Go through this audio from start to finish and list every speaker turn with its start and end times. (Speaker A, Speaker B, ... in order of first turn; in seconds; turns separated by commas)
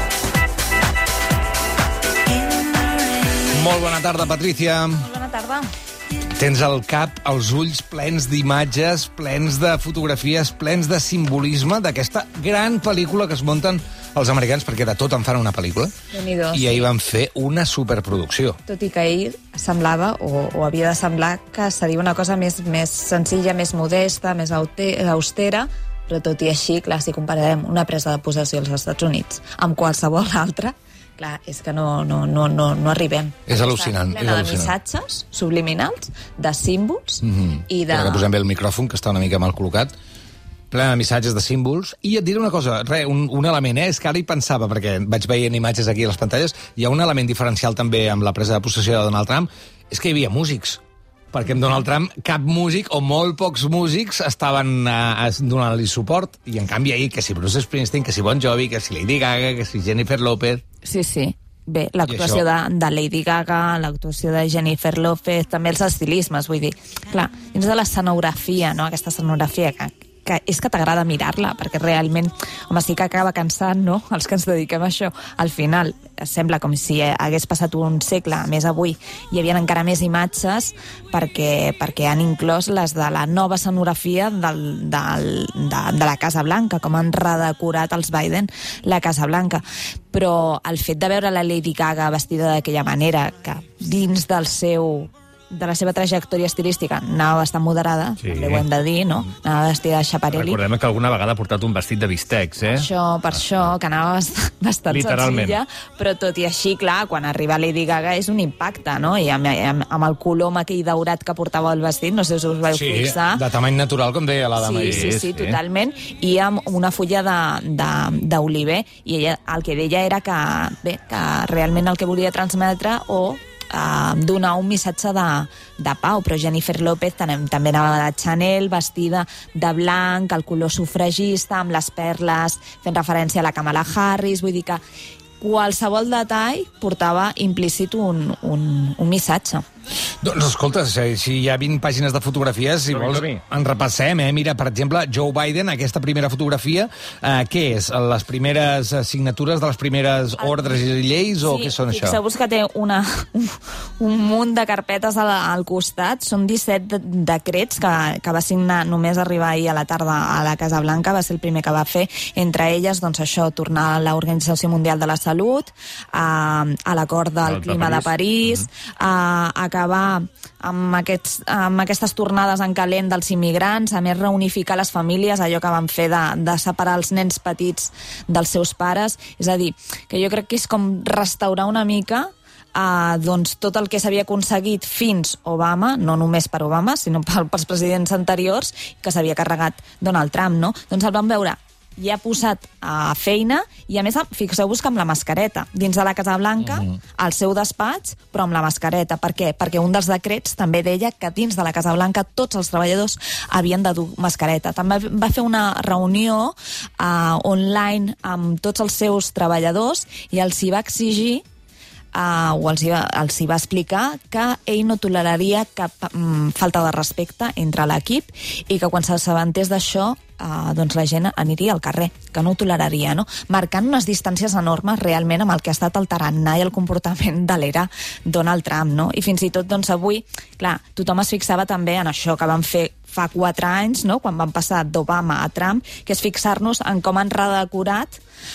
Speaker A: 3.5-5.1, Speaker B: 5.0-5.7, Speaker A: 6.3-15.9, Speaker B: 16.1-16.9, Speaker A: 16.5-18.6, Speaker B: 18.7-38.3, Speaker A: 33.5-34.8, Speaker A: 37.2-39.9, Speaker A: 40.7-50.8, Speaker A: 51.3-60.6, Speaker B: 60.8-100.6, Speaker A: 62.1-62.5, Speaker C: 98.2-98.7, Speaker C: 100.3-102.9, Speaker B: 102.7-113.4, Speaker C: 104.9-105.6, Speaker A: 112.7-115.1, Speaker B: 114.6-134.8, Speaker C: 114.8-115.6, Speaker B: 135.4-139.6, Speaker A: 140.2-152.2, Speaker C: 142.9-143.4, Speaker B: 150.4-150.8, Speaker B: 151.4-211.4, Speaker C: 167.4-168.1, Speaker A: 196.7-196.9, Speaker B: 212.1-238.2